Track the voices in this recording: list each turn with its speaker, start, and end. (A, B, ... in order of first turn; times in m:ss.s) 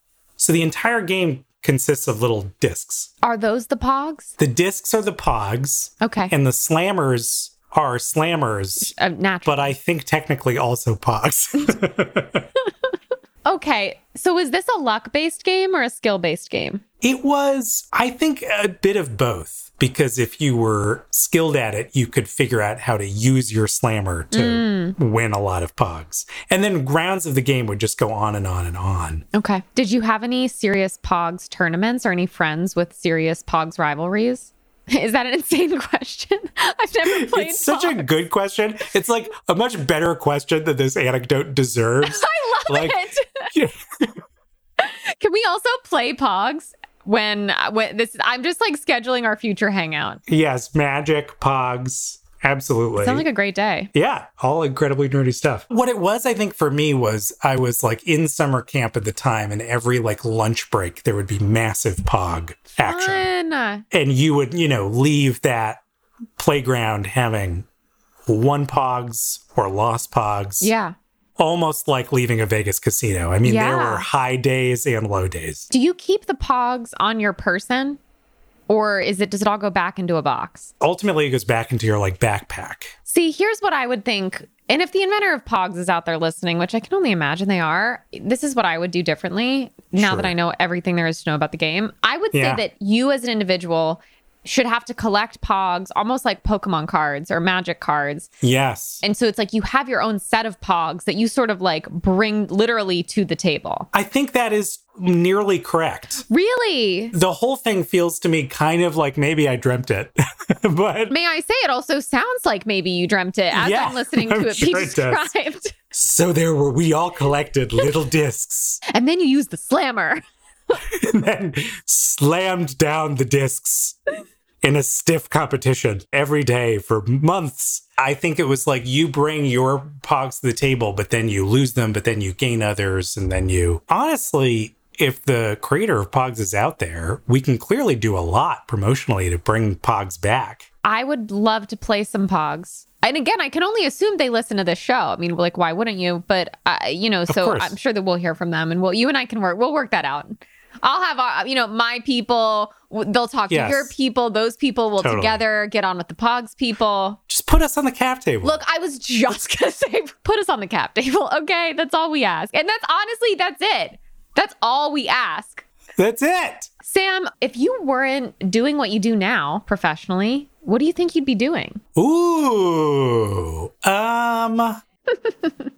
0:00.4-0:03.1 A
0:03.2-0:04.3 B
0:04.4-0:08.9 A
0:06.0-0:06.3 B
0:08.8-0:09.7 B
0:09.4-0:12.5 A
0:13.4-0:16.8 B
0:17.0-0:29.2 A
0:24.3-0:25.0 B
0:29.3-0:38.0 B
0:37.1-0:44.2 A
0:42.0-0:43.5 B
0:44.8-0:50.2 B
0:50.3-0:53.2 A
0:53.0-0:53.9 B
0:53.9-1:03.3 A
1:02.8-1:03.8 B
1:03.9-1:05.8 A
1:06.4-1:07.6 A
1:08.3-1:10.7 A
1:10.6-1:10.9 B
1:11.4-1:15.7 A
1:13.4-1:14.0 B
1:15.7-1:18.0 B
1:18.7-1:20.7 B
1:20.8-1:22.9 A
1:23.1-1:38.3 B
1:30.0-1:30.3 A
1:32.3-1:32.6 A
1:38.4-1:39.0 A
1:39.0-1:43.9 B
1:43.9-1:46.2 A
1:46.3-1:47.2 B
1:47.1-1:51.1 A
1:51.1-1:55.8 B
1:53.5-1:55.3 A
1:55.9-1:58.8 A
1:58.9-2:00.2 B
2:00.8-2:04.0 A
2:04.6-2:20.7 A
2:20.8-2:37.2 B
2:27.3-2:27.8 A
2:33.5-2:33.9 A
2:35.0-2:35.4 A
2:37.3-2:38.6 A
2:38.4-2:45.6 B
2:46.0-2:46.7 A
2:46.8-2:51.8 B
2:52.0-2:54.8 A